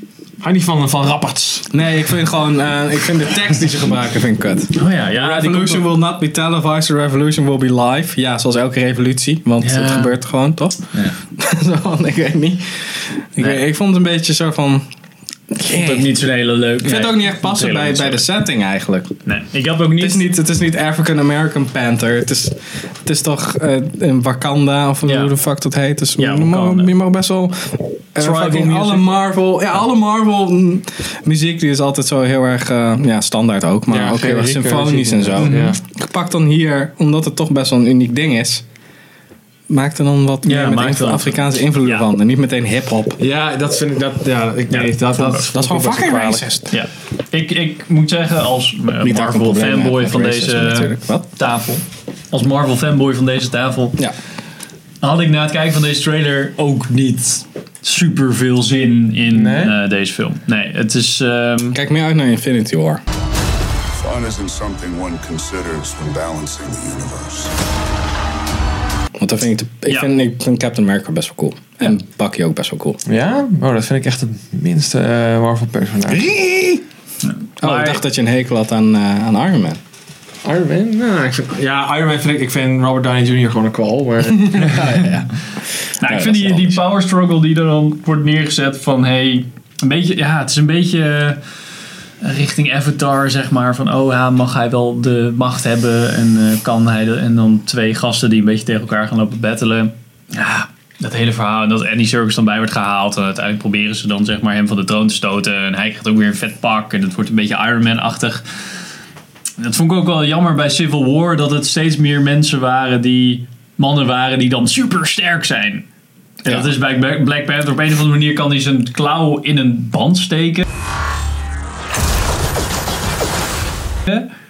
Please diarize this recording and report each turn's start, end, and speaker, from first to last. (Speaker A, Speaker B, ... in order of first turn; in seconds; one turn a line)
Speaker A: 0.4-1.7
Speaker B: 1.7-14.8
Speaker C: 4.7-5.9
Speaker C: 9.6-10.2
Speaker B: 15.5-16.2
Speaker C: 15.7-18.2
Speaker B: 16.8-19.1
Speaker C: 19.2-20.3
Speaker B: 20.0-38.6
Speaker C: 25.1-25.3
Speaker C: 26.2-26.9
Speaker C: 28.2-29.2
Speaker A: 33.9-35.8
Speaker C: 35.4-35.7
Speaker B: 39.7-43.2
Speaker C: 40.4-42.1
Speaker A: 43.2-46.5
Speaker C: 44.7-45.5
Speaker B: 45.5-46.7
Speaker C: 46.7-54.0
Speaker B: 49.0-51.3
Speaker C: 55.0-61.8
Speaker A: 59.3-59.8
Speaker B: 61.7-63.0
Speaker D: 64.0-67.5
Speaker B: 69.2-73.0
Speaker A: 73.1-76.3
Speaker B: 76.1-76.8
Speaker C: 77.2-78.0
Speaker B: 77.6-79.8
Speaker A: 80.4-85.0
Speaker B: 84.4-85.3
Speaker B: 85.9-86.8
Speaker C: 86.0-91.4
Speaker C: 92.2-108.4
Speaker C: 109.6-115.9
Speaker C: 116.4-120.7